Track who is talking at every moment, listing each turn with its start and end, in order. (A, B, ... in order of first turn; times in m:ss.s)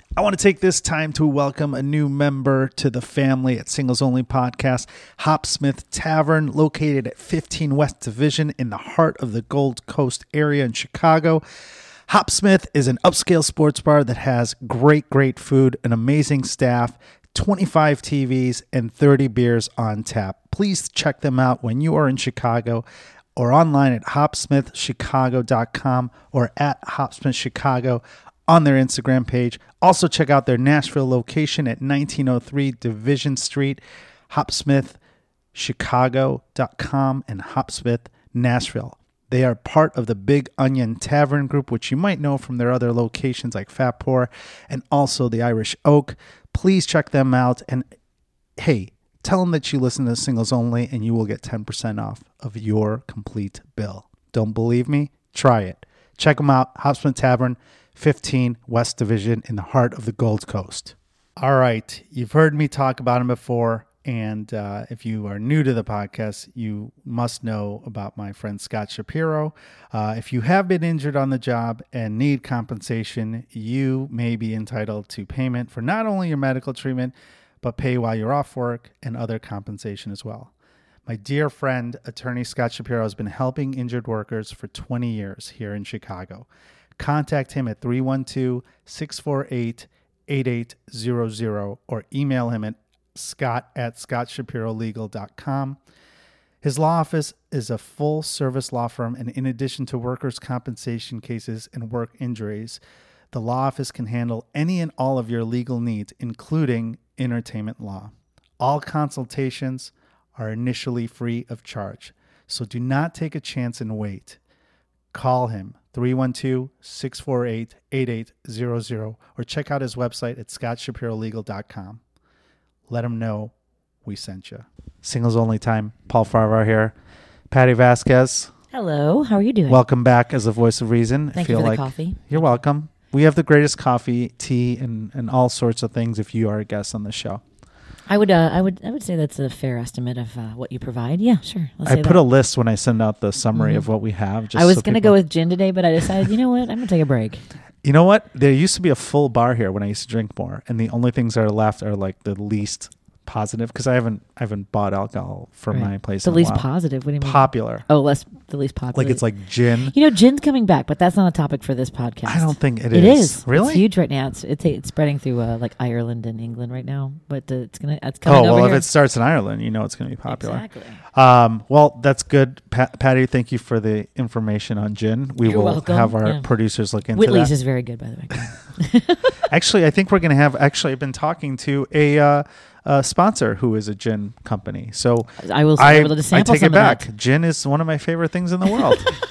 0:00.2-0:11.4 A
0:12.1-0:22.8 A
0:23.4-0:35.0 A
0:35.5-0:47.9 A
0:48.6-1:20.5 A
1:21.1-1:35.8 A
1:36.6-1:42.8 A
1:43.3-1:54.4 A
1:55.1-2:02.0 A
2:02.9-2:03.5 A
2:04.0-2:07.0 A
2:07.5-2:08.5 A
2:08.7-2:09.8 B
2:09.7-2:17.4 A
2:11.4-2:12.4 B
2:18.1-2:22.2 B
2:21.8-2:25.2 A
2:23.6-2:23.9 B
2:24.5-2:27.4 B
2:27.8-2:36.7 A
2:35.7-2:39.2 B
2:37.2-2:37.9 A
2:38.9-2:39.9 A
2:39.9-2:48.8 B
2:42.3-2:43.8 A
2:48.2-2:57.5 A
2:50.3-2:51.0 B
2:55.4-2:56.4 B
2:57.2-2:59.2 B
2:59.5-3:09.1 A
3:05.4-3:07.1 B
3:08.7-3:09.0 B